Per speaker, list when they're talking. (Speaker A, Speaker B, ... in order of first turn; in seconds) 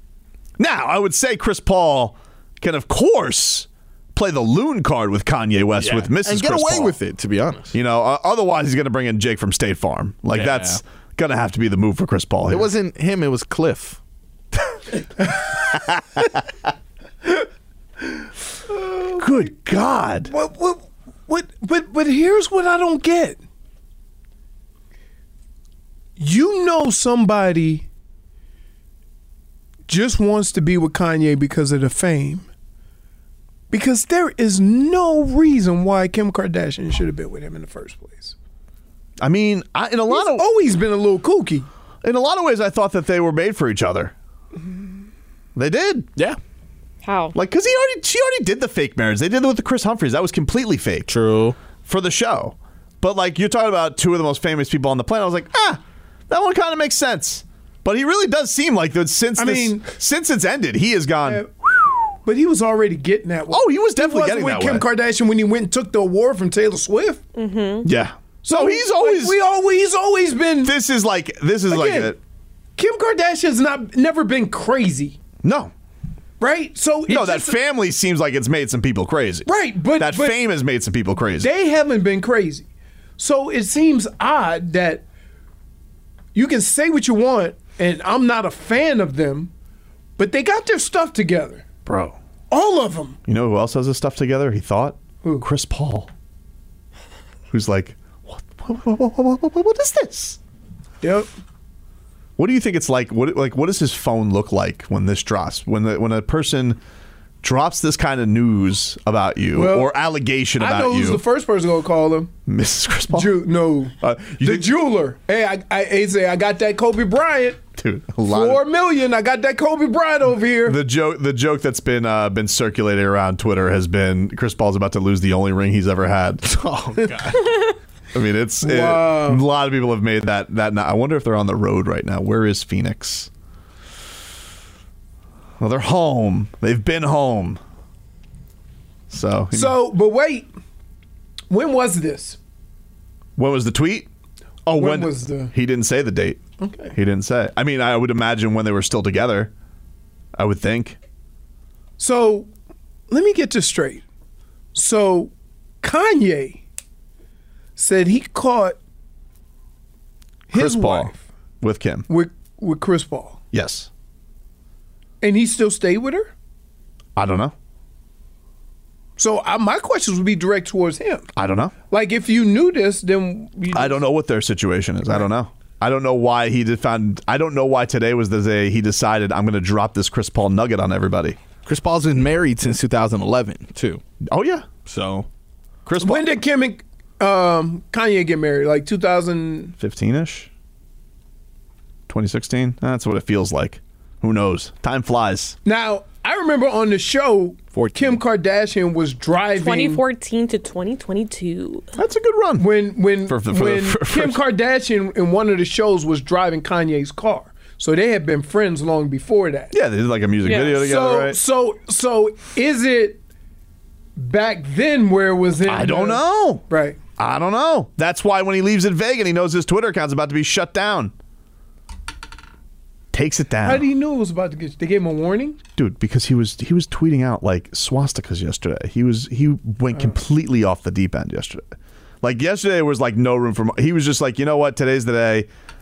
Speaker A: 0.6-7.0, 7.7-12.7, 19.2-20.3, 39.2-40.5, 42.0-44.1, 45.5-46.1, 47.3-51.1, 51.9-61.9, 63.5-64.8, 67.8-69.4, 70.6-72.2, 75.4-75.7, 77.1-81.5, 91.8-92.2, 93.3-96.1, 97.5-100.4, 102.4-106.8, 107.4-111.2, 112.5-113.5, 114.0-114.7, 117.8-118.6, 120.7-126.4, 128.1-133.3, 135.6-137.6, 139.1-139.8, 143.3-144.1, 144.7-146.4, 146.9-149.5, 150.3-151.0, 160.5-162.1, 163.5-163.9, 167.2-167.5, 171.3-171.7, 173.7-181.4, 184.2-184.7, 185.8-186.3, 189.8-190.5, 192.1-195.6, 201.9-204.4, 209.7-211.4, 215.7-216.6, 217.2-221.1, 223.1-223.8, 225.8-235.5
Speaker B: 5.8-7.7, 10.3-10.8, 12.5-14.0, 51.1-51.5, 126.4-127.5, 181.6-184.0, 184.8-185.3, 197.7-198.2
Speaker C: 18.7-19.5, 20.3-23.4, 26.2-27.9, 29.9-32.5, 33.7-38.3, 40.1-41.7, 59.4-59.9, 62.2-67.2, 68.4-70.7, 71.7-72.2, 72.8-75.2, 76.4-77.5, 79.5-80.3, 81.4-82.6, 83.2-85.0, 86.3-89.5, 90.2-91.6, 92.5-93.2, 101.0-101.3, 109.5-109.9, 110.6-112.3, 113.1-117.6, 118.2-120.8, 128.6-129.4, 139.5-140.5, 141.5-142.4, 144.7-145.5, 146.6-146.9, 152.0-152.5, 153.1-154.0, 154.7-156.6, 157.8-158.8, 160.5-161.2, 162.1-163.4, 165.2-166.3, 169.2-171.3, 171.9-174.0, 186.0-189.7, 195.6-200.0, 202.6-209.7, 210.8-213.2, 214.2-217.0, 223.6-225.6
Speaker D: 47.0-47.4, 67.3-67.9, 199.6-201.8, 210.4-210.8